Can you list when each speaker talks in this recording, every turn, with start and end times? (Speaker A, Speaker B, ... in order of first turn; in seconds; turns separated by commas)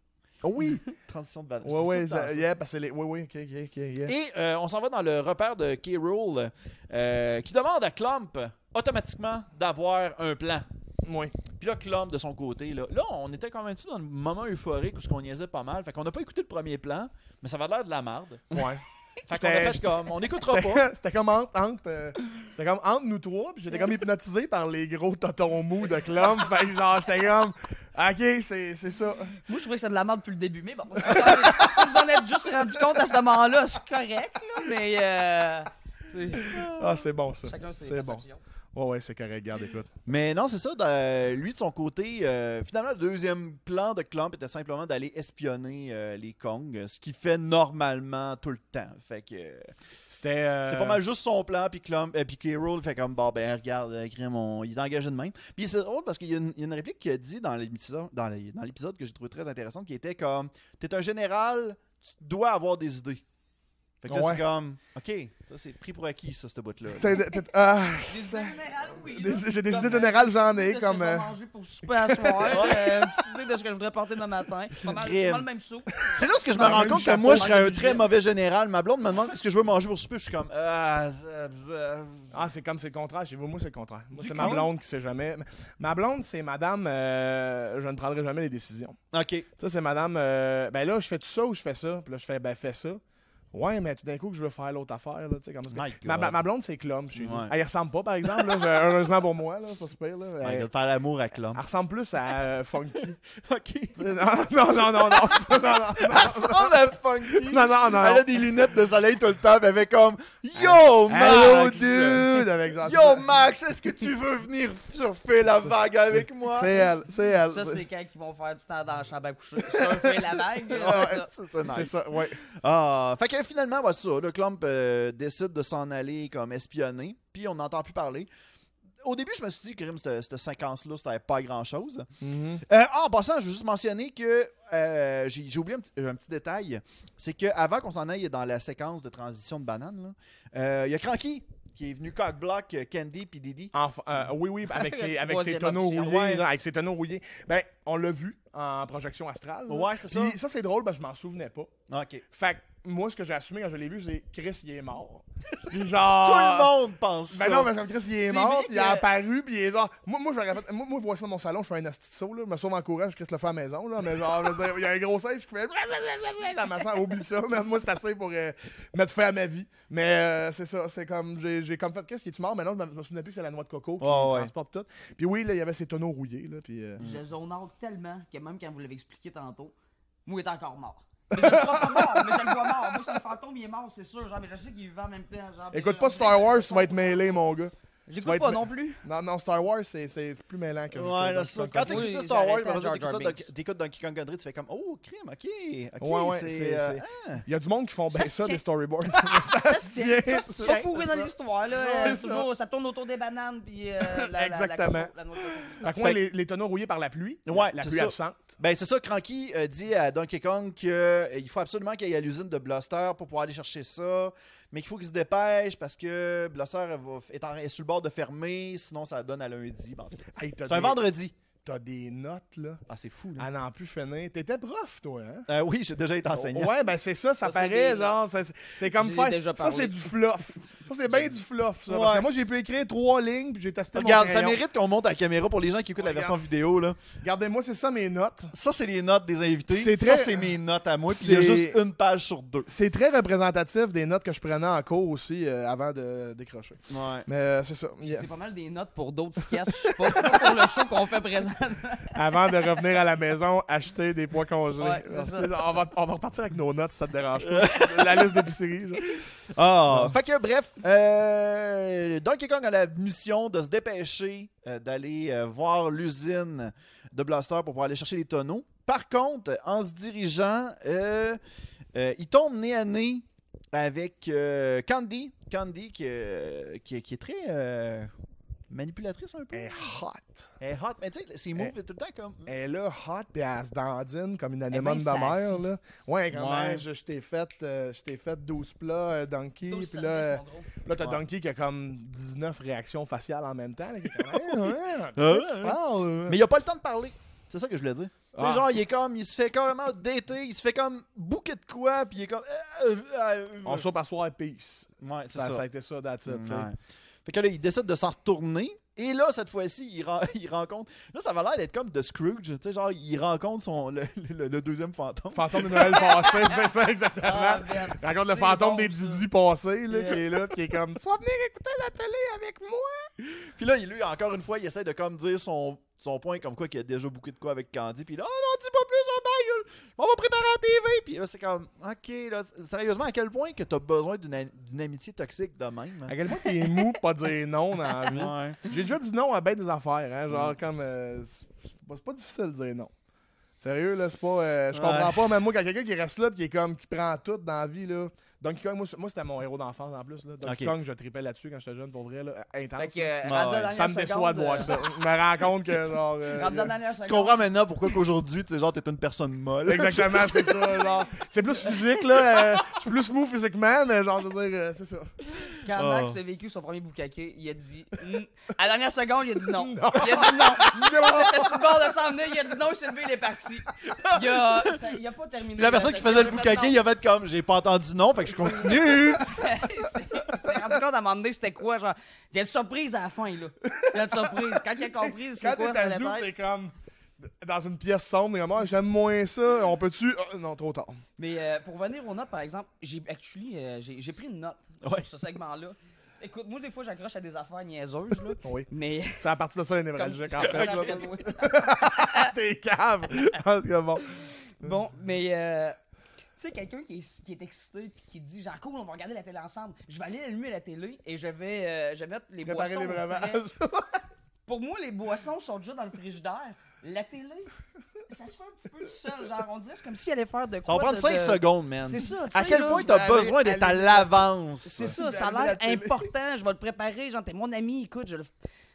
Speaker A: 0.4-0.9, Speaker B: 0.7-2.5, Speaker A: 1.6-4.1, Speaker B: 4.1-10.7, Speaker A: 11.1-11.4, Speaker B: 11.6-18.5, Speaker A: 18.5-29.4, Speaker B: 19.3-20.9, Speaker C: 29.5-36.7, Speaker A: 31.1-31.8, Speaker A: 36.4-39.9, Speaker C: 37.5-38.4, Speaker B: 40.1-49.7, Speaker A: 50.1-51.0, Speaker B: 50.6-63.2, Speaker B: 64.0-67.2, Speaker A: 64.1-64.5, Speaker A: 67.0-71.3, Speaker C: 68.1-78.0, Speaker A: 71.9-72.9, Speaker B: 72.5-73.0, Speaker B: 74.9-75.5, Speaker B: 76.1-82.4, Speaker A: 76.6-77.9, Speaker A: 82.3-89.0, Speaker B: 84.2-84.7, Speaker B: 89.1-89.5, Speaker A: 89.6-93.0, Speaker A: 93.5-100.7, Speaker B: 95.7-96.4, Speaker B: 97.1-97.5, Speaker B: 98.3-98.7, Speaker B: 100.4-101.6, Speaker A: 101.5-103.2, Speaker B: 103.2-116.8, Speaker A: 104.0-108.5, Speaker A: 110.6-113.3, Speaker A: 116.0-117.8, Speaker C: 117.5-121.3, Speaker A: 119.7-122.5, Speaker B: 120.7-128.3, Speaker B: 129.0-132.1, Speaker A: 132.2-132.6, Speaker B: 132.6-143.7, Speaker A: 143.7-151.7, Speaker C: 144.7-146.3, Speaker B: 146.0-146.4, Speaker B: 149.7-150.4, Speaker B: 151.9-152.2, Speaker A: 152.3-156.7, Speaker B: 156.0-157.7, Speaker A: 157.3-177.0, Speaker C: 158.2-159.1, Speaker B: 174.0-174.5, Speaker C: 177.0-179.7, Speaker C: 180.3-187.4, Speaker A: 181.3-183.0, Speaker A: 185.7-192.1, Speaker C: 188.1-189.0, Speaker B: 190.9-197.4, Speaker C: 191.8-193.5, Speaker A: 196.0-201.2, Speaker C: 198.1-198.6, Speaker C: 199.4-206.0, Speaker B: 200.2-201.3, Speaker A: 201.8-202.5, Speaker A: 204.1-205.1, Speaker A: 205.8-208.5, Speaker B: 205.9-206.2, Speaker B: 207.5-221.3, Speaker A: 220.4-221.1, Speaker A: 221.6-222.8, Speaker B: 222.9-223.5, Speaker A: 223.4-225.5, Speaker B: 225.5-226.7, Speaker A: 226.3-234.6, Speaker C: 227.4-228.2, Speaker C: 228.9-230.7, Speaker B: 231.9-232.3, Speaker B: 233.9-237.0, Speaker A: 236.0-236.4, Speaker A: 237.2-238.5, Speaker B: 238.5-242.7, Speaker A: 239.7-240.5, Speaker A: 241.1-241.8, Speaker A: 242.7-248.3, Speaker B: 246.9-247.3, Speaker C: 248.0-252.1, Speaker A: 252.1-259.1, Speaker C: 254.8-255.6, Speaker B: 257.4-258.5, Speaker B: 259.0-271.4, Speaker A: 259.9-260.1, Speaker B: 271.9-278.1, Speaker B: 278.7-279.9, Speaker A: 279.5-280.5, Speaker B: 280.6-282.5, Speaker A: 282.5-296.4, Speaker C: 284.7-285.6, Speaker B: 286.3-286.9, Speaker C: 289.6-290.7, Speaker B: 294.2-303.9, Speaker A: 298.3-298.7, Speaker A: 303.6-306.7, Speaker B: 305.0-305.6, Speaker B: 306.3-316.1, Speaker A: 315.3-323.1, Speaker C: 316.1-316.6, Speaker C: 317.2-319.3, Speaker C: 319.9-320.2, Speaker B: 323.2-336.1, Speaker A: 336.1-342.9, Speaker B: 338.1-338.6, Speaker B: 340.3-340.6, Speaker A: 343.6-353.1, Speaker B: 344.7-345.3, Speaker B: 350.4-350.7, Speaker C: 352.8-354.8, Speaker B: 353.2-353.8, Speaker A: 353.7-356.7, Speaker C: 356.3-357.5, Speaker B: 357.0-360.8, Speaker A: 359.6-365.1, Speaker C: 365.5-376.8, Speaker B: 365.7-366.2, Speaker A: 369.6-371.6, Speaker B: 375.6-379.3, Speaker A: 378.4-378.9, Speaker C: 379.2-386.3, Speaker A: 383.7-391.0, Speaker C: 391.2-399.2, Speaker A: 398.4-404.1, Speaker C: 400.0-402.3, Speaker B: 400.4-401.1, Speaker C: 404.6-405.8, Speaker C: 406.4-413.4, Speaker A: 412.4-414.0, Speaker C: 414.5-417.5, Speaker C: 418.1-422.9, Speaker B: 420.6-425.0, Speaker A: 422.4-424.2, Speaker C: 424.6-428.3, Speaker A: 424.8-426.1